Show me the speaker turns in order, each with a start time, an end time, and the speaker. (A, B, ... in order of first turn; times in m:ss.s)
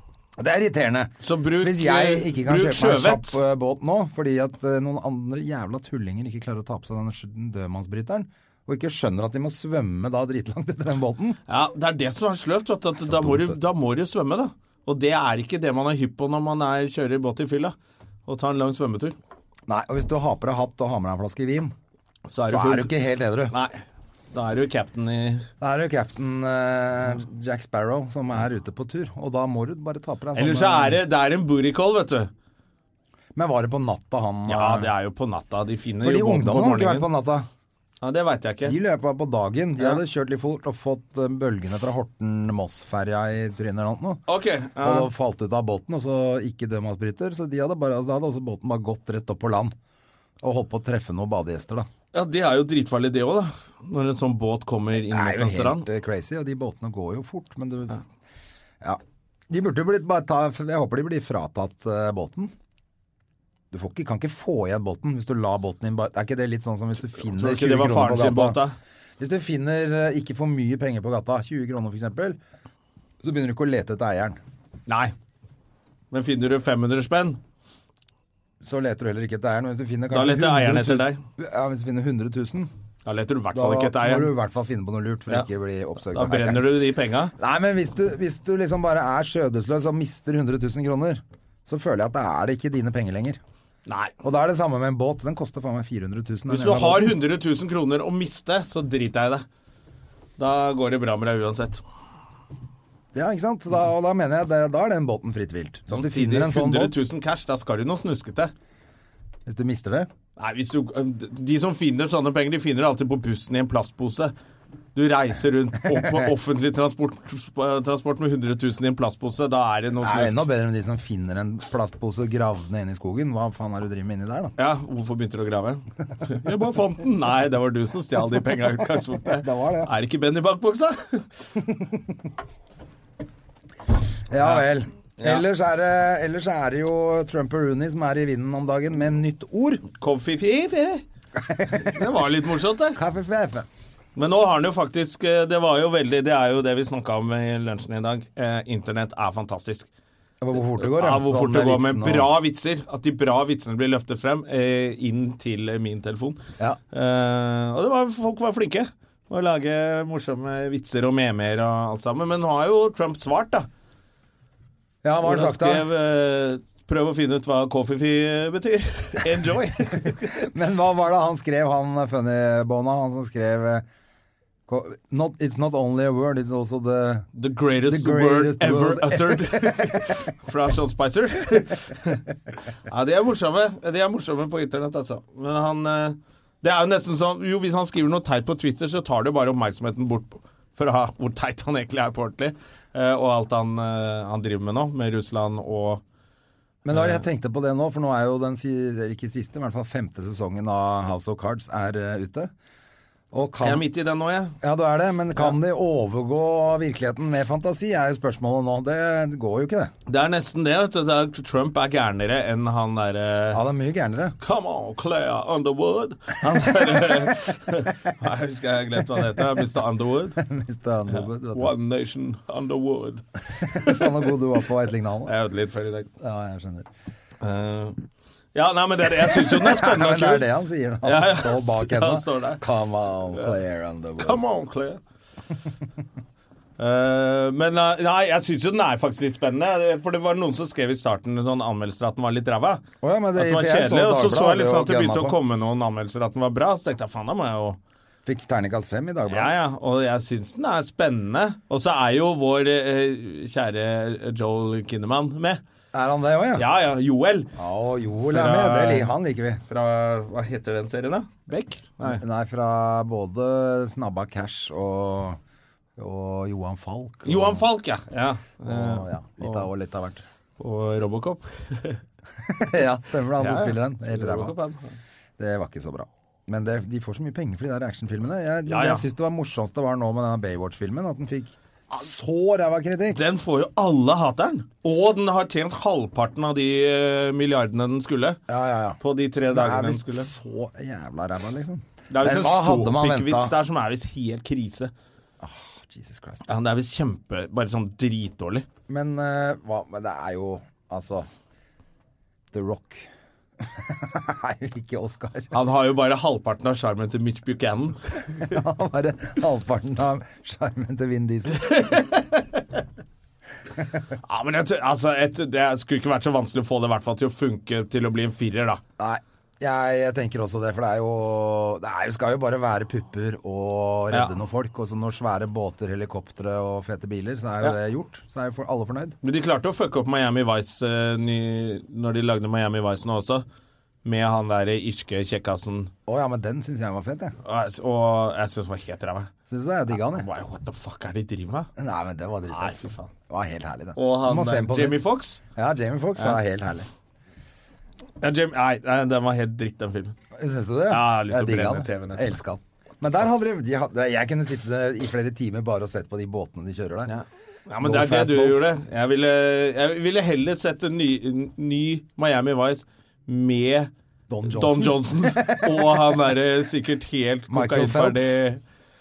0:00.4-0:11.4 A
0:01.2-0:03.4 B
0:11.5-0:17.8 B
0:13.1-0:13.6 A
0:18.3-0:19.2 B
0:19.7-0:21.7 A
0:22.3-0:22.9 B
0:22.5-0:23.5 A
0:24.3-0:25.5 B
0:25.6-0:31.0 A
0:30.4-0:32.3 B
0:33.4-0:34.9 A
0:34.5-0:37.1 B
0:36.0-0:37.5 A
0:38.0-0:38.8 B
0:38.6-0:44.2 A
0:44.3-0:45.1 B
0:44.8-0:49.7 A
0:50.4-0:51.9 A
0:52.1-0:55.8 B
0:55.1-0:58.0 A
0:58.8-1:02.5 A
1:03.7-1:08.6 A
1:07.3-1:08.8 B
1:09.2-1:12.4 A
1:13.2-1:14.4 A
1:14.9-1:15.1 B
1:16.1-1:17.4 B
1:18.6-1:22.7 A
1:20.1-1:21.2 B
1:23.0-1:24.3 B
1:23.5-1:26.7 A
1:26.1-1:27.3 B
1:27.4-1:33.4 A
1:33.9-1:34.1 B
1:34.2-1:37.2 A
1:36.5-1:39.4 B
1:40.4-1:41.8 B
1:43.1-1:47.0 A
1:45.9-1:48.5 B
1:49.5-1:50.1 A
1:50.4-1:54.3 B
1:55.0-2:00.4 B
2:00.0-2:04.5 A
2:04.6-2:11.3 B
2:09.4-2:09.9 A
2:14.3-2:19.8 A
2:14.4-2:14.7 B
2:15.2-2:15.4 B
2:20.0-2:21.0 B
2:21.4-2:22.0 A
2:21.7-2:23.0 B
2:22.9-2:23.7 A
2:24.2-2:29.9 B
2:30.4-2:32.3 A
2:30.8-2:36.4 B
2:36.9-2:43.7 B
2:45.0-2:45.9 A
2:45.2-2:50.4 B
2:50.3-2:53.8 A
2:54.7-2:57.3 A
2:57.4-3:02.2 B
2:57.9-3:00.3 A
3:02.9-3:16.0 B
3:16.8-3:22.5 A
3:16.9-3:17.2 B
3:23.3-3:23.8 A
3:23.6-3:24.6 B
3:24.6-3:29.9 A
3:30.1-3:33.6 B
3:33.5-3:34.4 A
3:34.4-3:40.4 B
3:36.4-3:37.4 A
3:40.4-3:41.7 A
3:41.1-3:44.2 B
3:43.6-3:45.3 A
3:45.3-3:46.1 B
3:46.2-3:46.9 A
3:47.4-3:48.0 B
3:48.6-3:50.5 B
3:49.3-3:54.4 A
3:51.0-3:52.6 B
3:54.2-3:55.0 B
3:56.8-4:02.8 B
4:03.0-4:05.4 A
4:03.4-4:07.8 B
4:08.3-4:09.5 A
4:09.3-4:15.6 B
4:15.9-4:16.7 A
4:16.6-4:17.5 B
4:17.6-4:19.6 A
4:18.3-4:19.1 B
4:19.7-4:22.2 B
4:22.0-4:25.4 A
4:26.0-4:27.7 A
4:27.2-4:29.7 B
4:28.7-4:30.2 A
4:30.6-4:32.0 B
4:32.4-4:34.5 A
4:33.4-4:35.0 B
4:35.4-4:43.2 A
4:38.7-4:39.0 B
4:43.1-4:48.4 B
4:48.5-4:49.0 A
4:49.0-4:50.3 B
4:49.5-4:53.5 A
4:52.1-4:54.9 B
4:55.4-4:56.5 A
4:56.5-4:58.7 B
4:58.9-5:01.3 A
5:02.5-5:03.1 A
5:03.6-5:05.6 A
5:05.5-5:08.5 B
5:08.5-5:11.9 A
5:11.6-5:12.6 B
5:14.3-5:18.8 B
5:19.0-5:29.2 A
5:29.2-5:33.4 B
5:34.0-5:35.9 B
5:36.1-5:37.3 A
5:37.4-5:39.3 B
5:39.5-5:40.3 A
5:39.9-5:41.7 B
5:41.8-5:45.0 A
5:42.5-5:43.1 B
5:44.0-5:45.4 B
5:45.6-5:46.9 A
5:48.2-5:50.2 B
5:50.4-5:57.2 A
5:50.9-5:52.3 B
5:57.1-6:03.9 B
5:57.8-5:58.8 A
6:04.3-6:06.2 A
6:04.5-6:08.6 B
6:07.5-6:08.4 A